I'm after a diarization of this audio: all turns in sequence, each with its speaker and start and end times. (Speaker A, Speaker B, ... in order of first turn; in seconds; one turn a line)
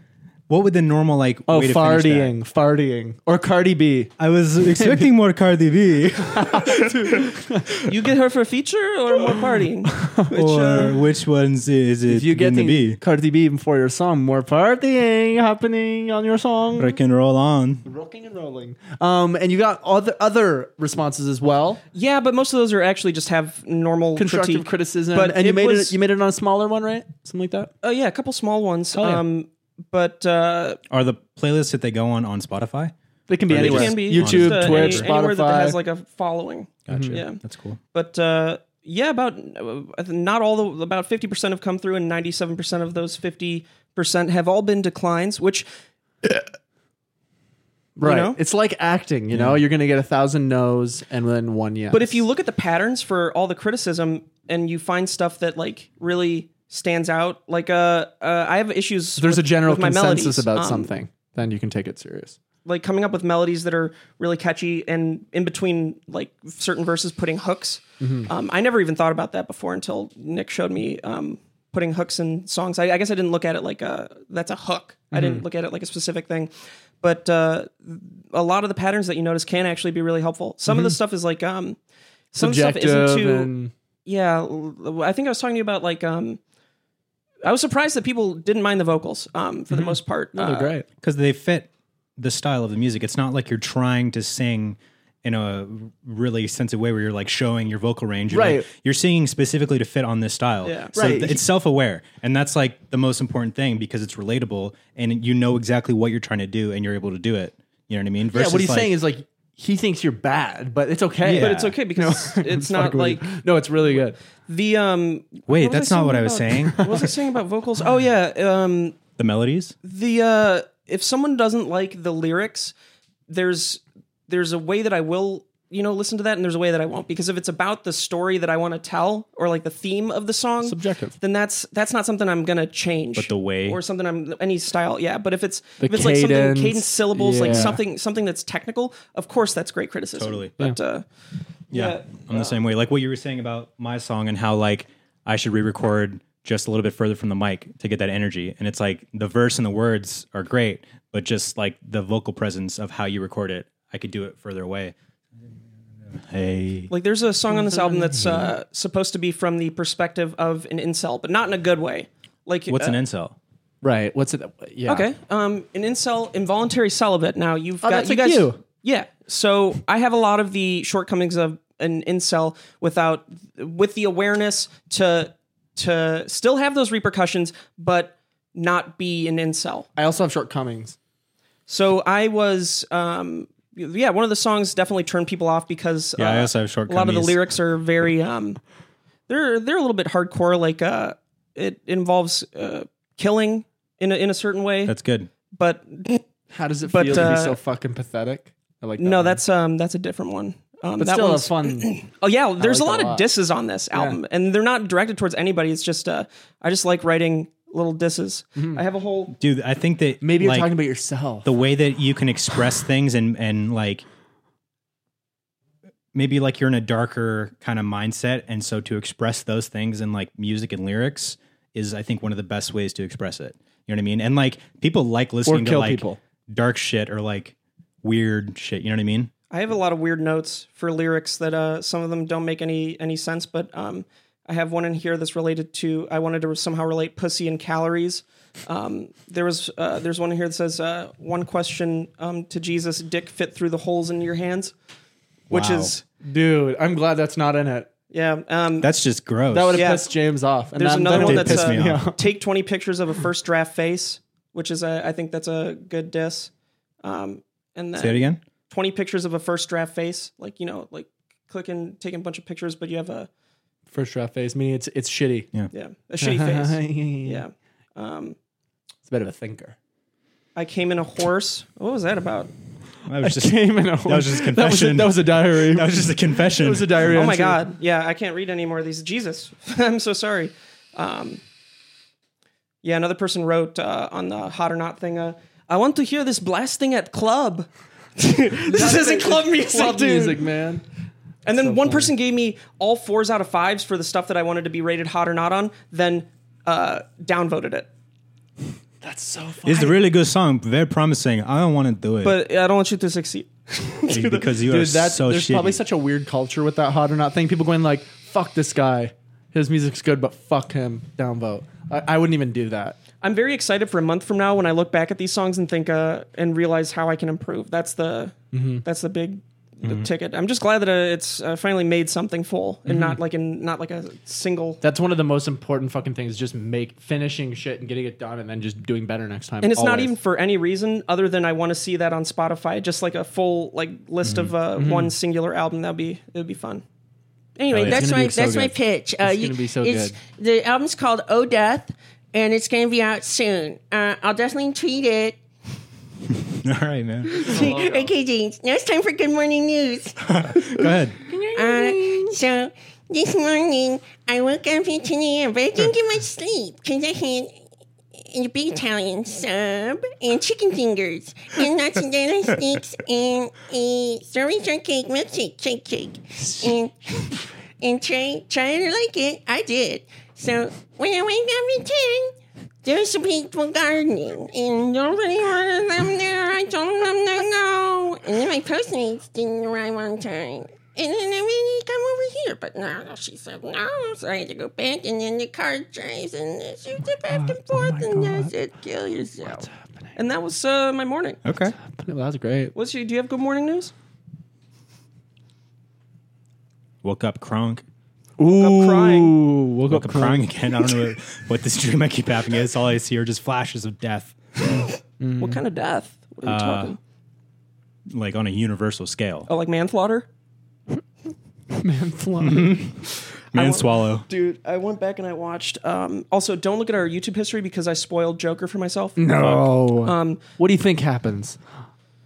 Speaker A: 0.5-2.3
Speaker B: 1.5-5.1
Speaker A: 4.2-7.2
Speaker B: 6.3-7.7
Speaker C: 7.8-11.0
Speaker B: 9.9-10.3
Speaker A: 10.3-13.0
Speaker B: 12.1-16.9
Speaker A: 16.8-17.8
Speaker B: 17.8-21.8
Speaker C: 21.9-25.9
Speaker B: 24.1-27.7
Speaker C: 27.8-30.8
Speaker B: 29.0-29.2
Speaker A: 30.9-32.9
Speaker B: 33.3-35.8
Speaker A: 33.5-35.1
Speaker C: 33.5-37.4
Speaker A: 36.9-37.8
Speaker B: 36.9-37.2
Speaker C: 37.9-45.6
Speaker B: 48.0-52.2
Speaker C: 48.0-48.4
Speaker A: 49.3-49.6
Speaker C: 51.9-60.9
Speaker B: 59.2-62.4
Speaker C: 62.6-81.8
Speaker B: 68.0-68.3
Speaker B: 75.1-75.4
Speaker B: 80.7-81.0
Speaker C: 82.3-83.5
Speaker B: 82.3-83.7
Speaker C: 84.0-86.4
Speaker C: 87.4-90.7
Speaker B: 89.7-90.8
Speaker A: 91.0-108.9
Speaker B: 98.3-98.7
Speaker C: 100.6-101.0
Speaker B: 100.9-101.4
Speaker B: 108.3-114.2
Speaker A: 111.2-111.8
Speaker C: 111.3-113.3
Speaker C: 114.5-119.0
Speaker A: 115.5-117.1
Speaker A: 119.2-119.7
Speaker C: 119.8-122.7
Speaker C: 123.3-141.1
Speaker B: 130.6-131.2
Speaker A: 133.1-133.8
Speaker B: 135.8-137.8
Speaker A: 137.4-137.7
Speaker A: 140.2-140.5
Speaker C: 141.7-142.6
Speaker A: 141.7-154.9
Speaker A: 156.1-156.9
Speaker C: 156.9-163.0
Speaker B: 157.5-158.4
Speaker A: 162.7-163.3
Speaker B: 163.8-165.1
Speaker C: 164.9-179.9
Speaker B: 167.8-168.6
Speaker B: 179.9-181.0
Speaker C: 181.7-188.6
Speaker A: 186.2-187.4
Speaker C: 189.3-194.9
Speaker A: 194.8-195.3
Speaker C: 195.5-196.2
Speaker B: 196.5-199.4
Speaker C: 196.9-197.6
Speaker C: 199.0-209.3
Speaker B: 201.0-202.0
Speaker B: 202.6-203.2
Speaker B: 203.9-204.2
Speaker B: 208.6-208.8
Speaker A: 209.3-210.7
Speaker B: 210.2-211.5
Speaker A: 211.4-214.0
Speaker A: 216.1-229.3
Speaker B: 225.4-226.2
Speaker C: 229.5-244.7
Speaker A: 245.5-245.9
Speaker C: 245.5-246.0
Speaker B: 246.2-247.9
Speaker C: 248.1-248.9
Speaker A: 248.8-249.8
Speaker B: 249.5-252.2
Speaker C: 249.7-250.1
Speaker C: 250.7-256.5
Speaker A: 251.1-252.0
Speaker C: 257.0-263.3
Speaker A: 257.9-258.4
Speaker B: 263.9-265.5
Speaker C: 265.7-268.4
Speaker B: 266.2-267.4
Speaker B: 269.0-269.8
Speaker C: 270.5-272.5
Speaker A: 273.1-277.1
Speaker B: 273.2-277.7
Speaker C: 277.1-281.4
Speaker C: 282.8-290.5
Speaker B: 288.6-290.8
Speaker C: 291.4-297.9
Speaker B: 291.6-292.1
Speaker B: 299.0-299.9
Speaker A: 299.6-302.4
Speaker C: 302.2-304.5
Speaker A: 304.1-305.8
Speaker B: 304.7-313.0
Speaker C: 313.2-324.8
Speaker B: 318.5-318.8
Speaker B: 324.8-330.1
Speaker C: 329.6-336.8
Speaker A: 334.2-334.5
Speaker B: 334.8-335.1
Speaker C: 337.6-338.5
Speaker A: 337.7-338.0
Speaker B: 337.9-340.2
Speaker D: 337.9-345.4
Speaker A: 346.3-347.7
Speaker D: 347.4-350.9
Speaker B: 347.4-348.1
Speaker A: 350.2-351.1
Speaker B: 351.3-352.3
Speaker D: 351.5-357.6
Speaker D: 358.1-389.7
Speaker B: 387.3-388.5
Speaker B: 389.4-390.1
Speaker C: 390.1-391.4
Speaker A: 391.4-391.8
Speaker B: 391.8-392.7
Speaker C: 392.7-393.9
Speaker A: 397.0-397.8
Speaker B: 398.4-400.5
Speaker C: 398.5-399.4
Speaker A: 399.9-404.8
Speaker B: 405.2-405.6
Speaker C: 405.4-407.0
Speaker A: 406.4-406.9
Speaker A: 408.1-409.5
Speaker C: 409.5-410.2
Speaker B: 411.7-412.9
Speaker A: 412.4-414.2
Speaker C: 413.5-420.4
Speaker B: 419.2-421.6